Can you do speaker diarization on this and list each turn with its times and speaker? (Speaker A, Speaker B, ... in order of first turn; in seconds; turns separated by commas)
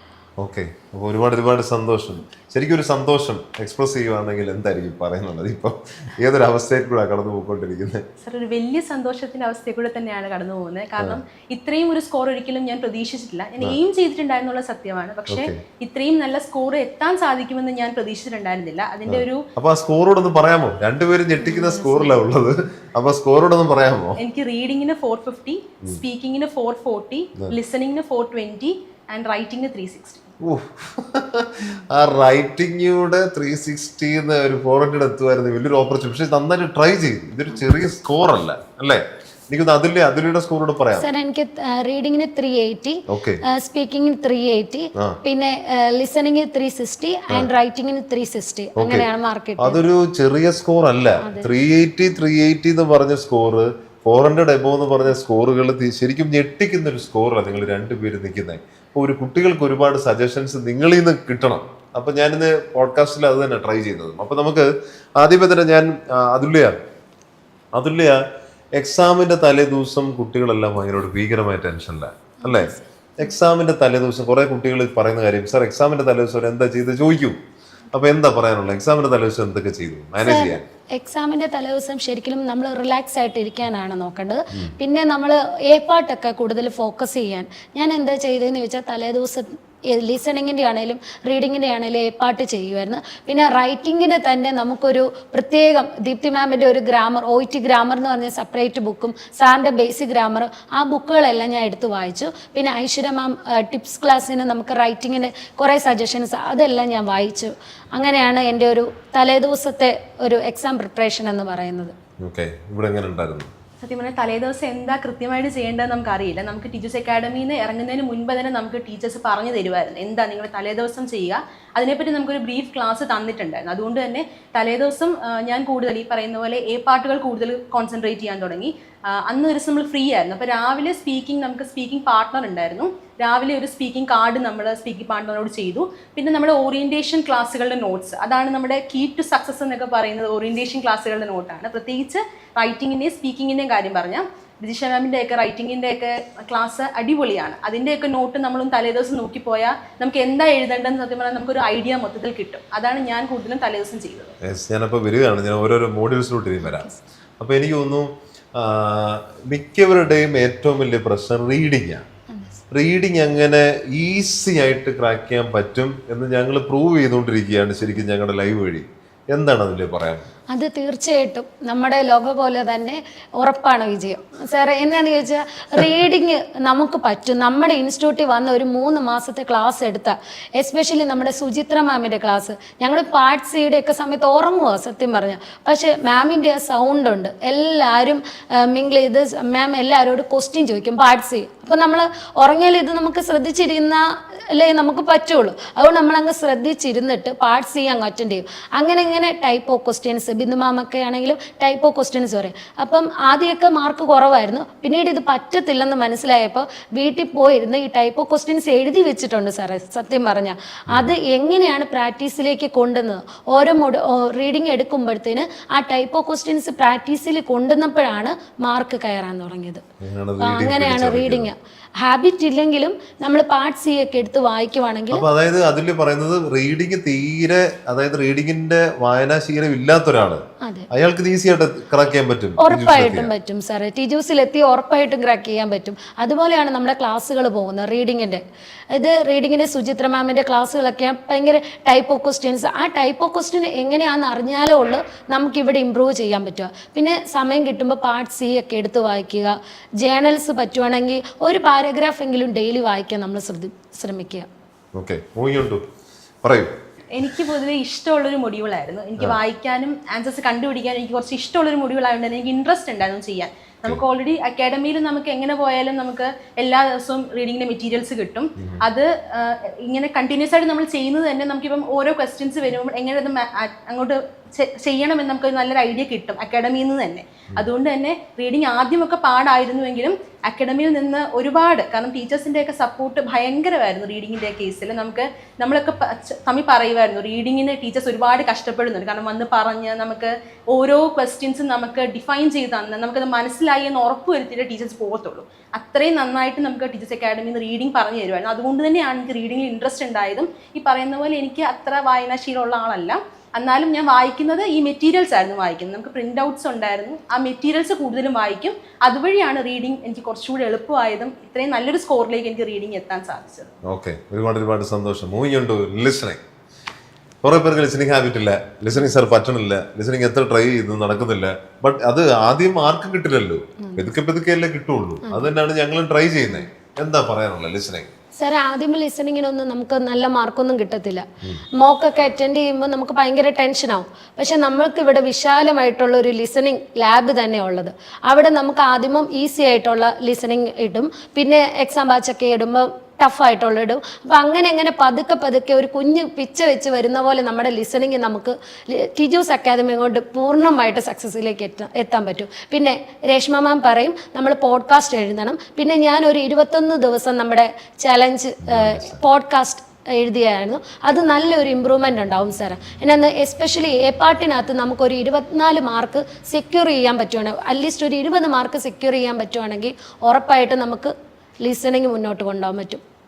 Speaker A: 0.4-8.0, Speaker B: 8.2-19.4, Speaker A: 15.3-15.6, Speaker A: 19.1-24.2, Speaker C: 21.4-22.2, Speaker B: 24.2-30.3, Speaker A: 30.4-41.1, Speaker C: 41.0-49.8, Speaker A: 43.1-43.4, Speaker A: 48.8-66.7, Speaker C: 51.2-51.5, Speaker A: 67.7-68.2, Speaker A: 68.8-77.4, Speaker C: 72.4-72.8, Speaker A: 77.9-80.7, Speaker C: 80.2-112.0, Speaker A: 112.2-113.5, Speaker B: 113.8-154.3, Speaker A: 154.4-156.9, Speaker C: 156.6-157.0, Speaker A: 157.4-162.1, Speaker C: 162.3-162.6, Speaker A: 162.7-170.3, Speaker C: 170.5-219.8, Speaker A: 220.0-221.5, Speaker C: 220.4-225.2, Speaker A: 225.1-233.3, Speaker C: 230.6-230.9, Speaker C: 232.6-254.5, Speaker A: 254.9-255.8, Speaker A: 256.4-256.7, Speaker B: 257.1-313.7, Speaker A: 313.8-316.4, Speaker A: 317.4-328.1, Speaker C: 325.2-325.5, Speaker C: 328.4-373.0, Speaker A: 358.6-359.2